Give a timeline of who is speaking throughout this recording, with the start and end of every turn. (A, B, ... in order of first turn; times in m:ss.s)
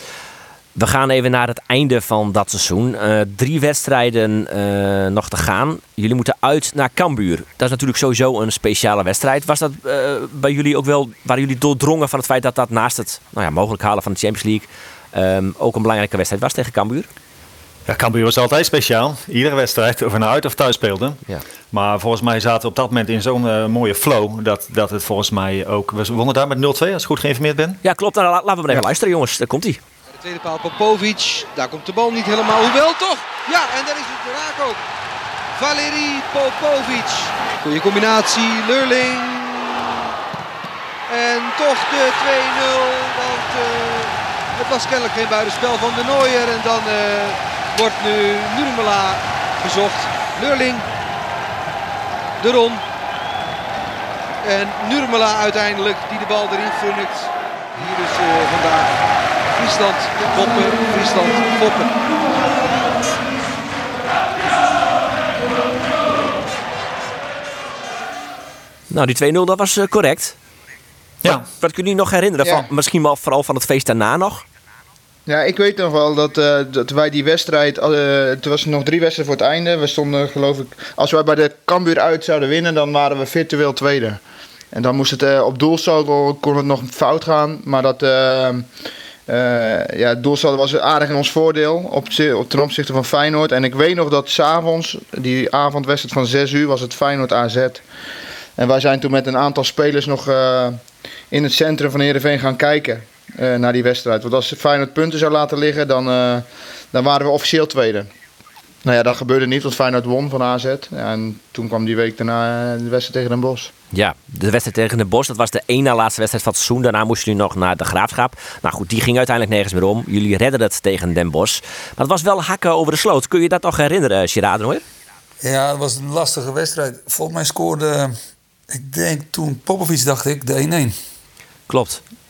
0:00.8-0:17.1 A
0:17.8-0:27.8 B
0:27.8-0:29.8 A
0:30.2-0:34.8 C
0:35.6-0:40.0 C
0:41.1-0:50.8 C
0:52.4-0:52.8 C
0:54.4-0:59.0 C
0:59.5-1:02.0 C
1:08.9-1:10.4 A
1:11.2-1:14.4 A
1:12.4-1:12.7 D
1:15.2-1:24.2 D
1:24.7-1:28.6 D
1:29.3-1:37.8 D
1:38.6-1:48.1 D
1:48.8-1:53.7 D
1:53.9-2:04.8 A
2:05.4-2:08.1 E
2:08.7-2:11.0 E
2:11.7-2:12.0 A